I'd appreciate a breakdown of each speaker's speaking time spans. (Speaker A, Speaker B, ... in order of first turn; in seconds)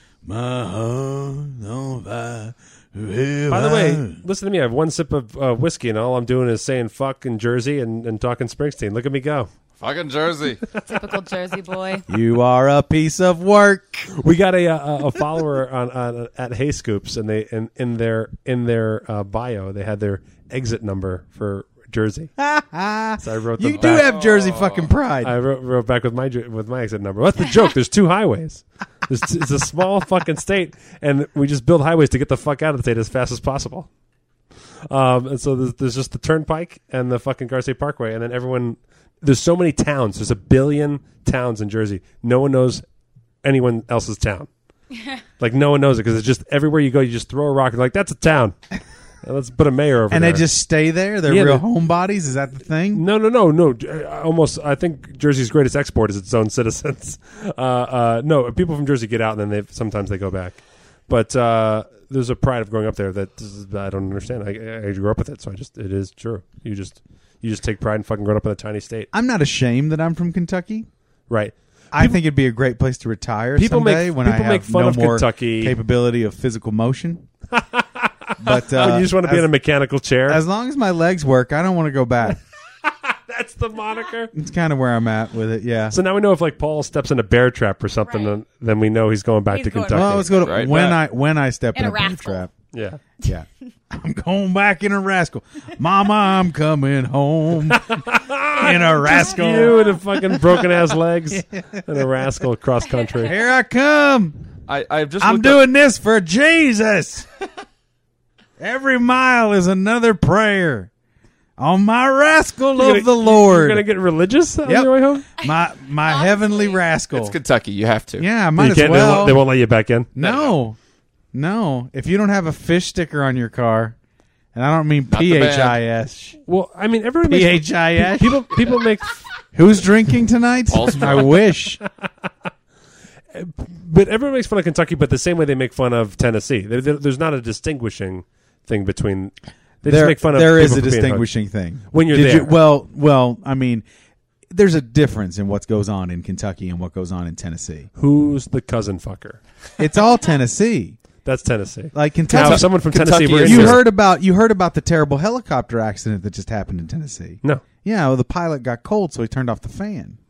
Speaker A: 0.2-4.2, 12.1-14.1, 22.4-25.4, 50.1-53.0, 69.1-70.9, 71.9-77.3, 78.4-79.5, 80.3-82.4, 84.3-86.0, 89.9-92.5, 93.2-99.8, 101.3-102.1, 103.2-104.4, 105.2-107.3, 108.6-110.9, 111.6-113.8, 114.7-117.4, 118.2-119.4, 120.2-120.8, 121.3-124.0, 124.5-126.4, 127.3-128.5, 129.5-131.8, 139.8-143.8, 144.5-147.9, 149.8-151.0, 151.9-152.7, 153.4-160.2
Speaker B: 3.5-9.5, 14.2-22.3, 23.2-24.1, 25.2-33.9, 34.9-42.9, 43.4-44.5, 45.4-48.6, 49.2-50.5, 51.3-51.6, 52.9-69.1, 71.3-72.2, 73.6-75.8, 77.5-80.4, 82.8-84.3, 85.9-90.4, 92.7-93.0, 97.7-103.3, 112.8-115.3, 118.6-120.1, 126.5-129.3, 133.3-141.3, 141.9-142.6, 148.0-149.4, 151.2-153.9
Speaker C: 9.8-10.6, 23.8-24.9, 90.4-91.0, 104.7-105.6, 117.1-118.3, 120.2-120.6, 125.1-125.8, 130.7-131.4, 152.3-153.8
Speaker D: 10.8-12.1, 88.1-88.3, 89.5-90.5, 91.8-92.5, 115.4-116.8